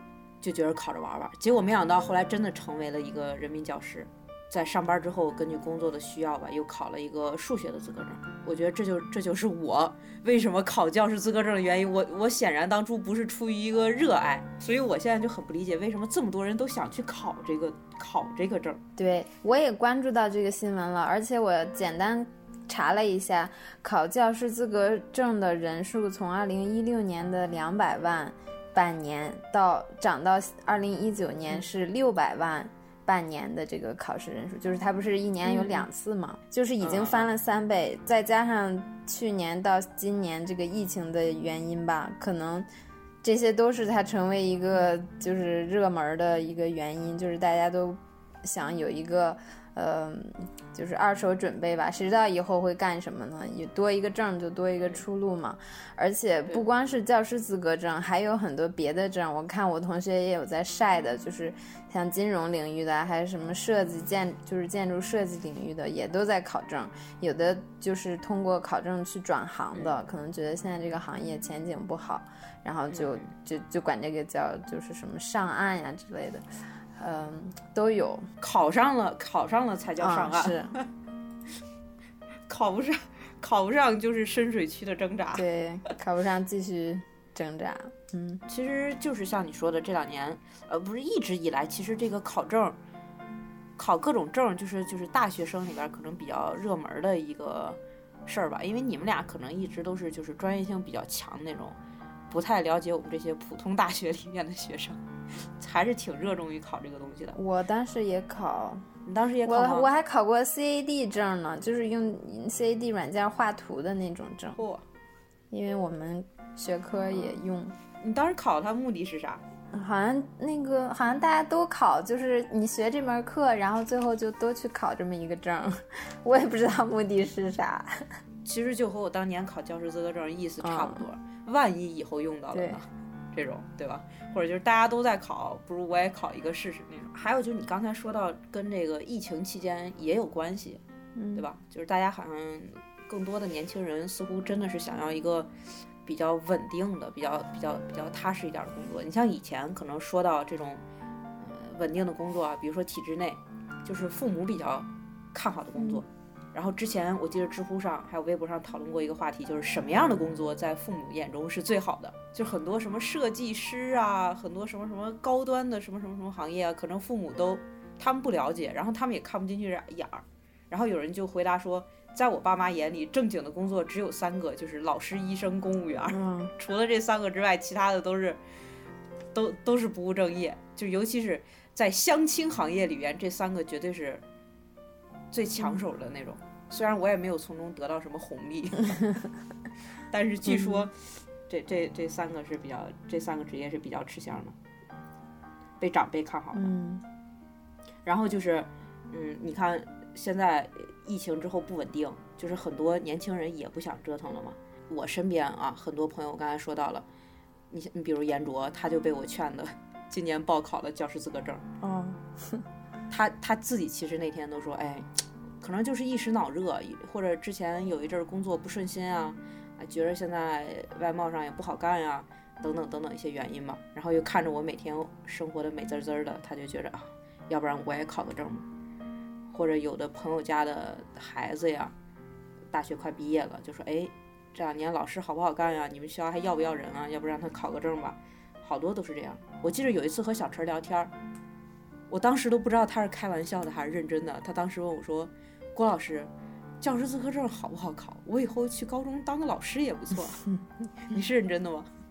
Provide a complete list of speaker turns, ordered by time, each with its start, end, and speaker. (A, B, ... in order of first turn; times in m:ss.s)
0:00.4-0:18.8 A
0:19.0-0:42.7 B
0:36.8-0:37.3 A
0:43.2-1:16.4 B
1:12.9-1:13.3 A
1:16.9-1:18.2 B
1:18.4-1:20.8 A
1:20.0-1:20.7 B
1:22.5-1:25.4 A
1:25.3-1:28.4 B
1:28.5-1:32.8 A
1:33.8-1:41.8 A
1:42.3-1:45.0 A
1:45.6-1:47.4 A
1:47.4-1:48.8 B
1:49.0-1:49.9 A
1:49.4-1:54.6 B
1:54.6-1:54.8 A
1:55.5-1:57.7 B
1:58.0-1:59.4 A
1:59.7-2:08.0 B
2:08.4-2:20.8 A
2:10.6-2:11.0 B
2:12.5-2:12.8 B
2:21.2-2:21.4 B
2:21.3-2:25.5 A
2:26.0-2:30.8 A
2:31.4-2:58.4 A
2:35.8-2:36.0 B
2:56.1-2:56.5 B
2:59.3-3:04.2 A
3:05.3-3:09.0 A
3:10.1-3:14.6 A
3:10.5-3:10.9 B
3:15.8-3:16.7 A
3:16.5-3:17.0 B
3:18.0-3:27.0 A
3:27.7-3:31.6 A
3:31.8-3:32.6 B
3:33.1-3:48.6 A
3:49.5-3:51.9 A
3:52.7-4:01.1 A
4:02.1-4:06.3 A
4:06.8-4:10.4 A
4:11.0-4:11.9 A